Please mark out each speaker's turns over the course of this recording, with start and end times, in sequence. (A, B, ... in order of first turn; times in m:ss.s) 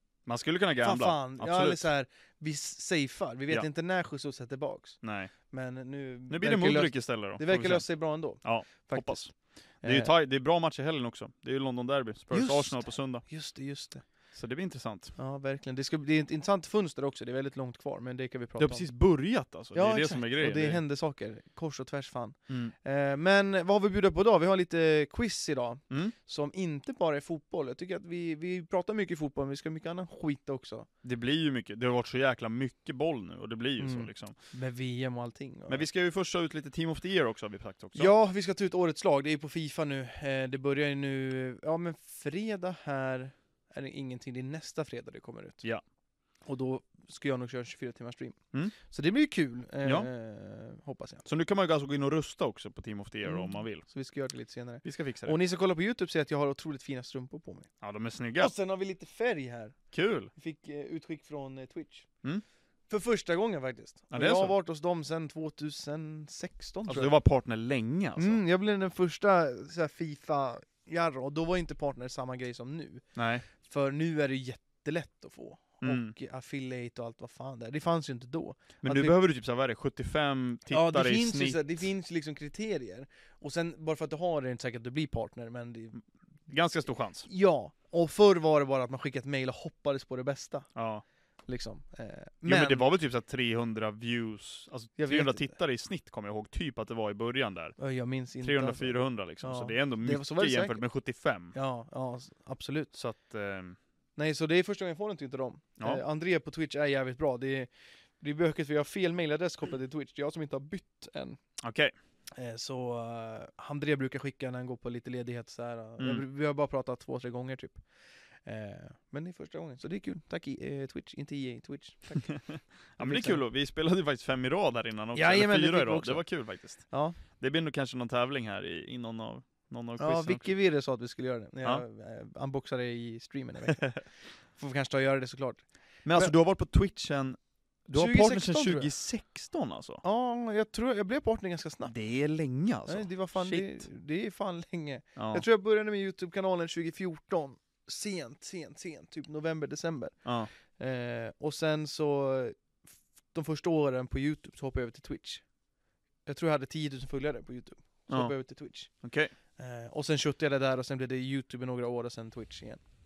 0:00.2-0:01.9 A
0:00.8-0:09.3 B
0:05.0-0:05.3 A
0:06.3-0:13.2 A
0:09.8-0:10.1 B
0:12.3-0:14.0 B
0:14.3-0:15.1 A
0:15.2-0:18.9 B
0:18.6-0:20.8 A
0:19.7-0:30.9 B
0:31.0-0:34.3 A
0:33.8-0:35.8 B
0:35.7-0:38.1 A
0:37.9-0:45.6 B
0:46.4-0:51.2 B
0:51.2-0:53.8 A
0:53.2-0:57.7 B
0:54.8-0:55.4 A
0:57.8-0:58.5 A
0:58.4-0:59.8 B
0:59.9-1:00.3 A
1:00.3-1:02.1 B
1:02.9-1:07.1 B
1:04.1-1:04.5 A
1:06.9-1:08.4 A
1:08.2-1:19.2 B
1:13.2-1:13.4 A
1:15.8-1:16.1 A
1:18.8-1:21.6 A
1:20.7-1:26.0 B
1:26.5-1:27.3 A
1:27.2-1:30.7 B
1:30.8-1:31.0 A
1:31.5-1:32.9 B
1:32.4-1:37.8 A
1:35.0-1:35.5 B
1:37.8-1:40.8 B
1:38.4-1:41.5 A
1:41.5-1:42.9 B
1:42.9-1:43.8 A
1:44.2-1:51.4 B
1:51.6-1:51.9 A
1:52.4-1:57.8 B
1:56.0-1:56.2 A
1:58.4-2:02.4 B
2:02.3-2:10.5 A
2:03.0-2:03.4 B
2:05.1-2:06.3 B
2:06.8-2:07.2 B
2:10.0-2:16.3 B
2:16.0-2:20.0 A
2:17.9-2:18.9 B
2:20.0-2:21.9 B
2:21.8-2:23.8 A
2:22.8-2:30.2 B
2:25.2-2:25.4 A
2:30.2-2:30.5 A
2:30.7-2:32.6 B
2:33.3-2:35.4 B
2:36.2-2:38.9 B
2:38.1-2:38.3 A
2:39.0-2:39.3 A
2:39.6-2:42.8 B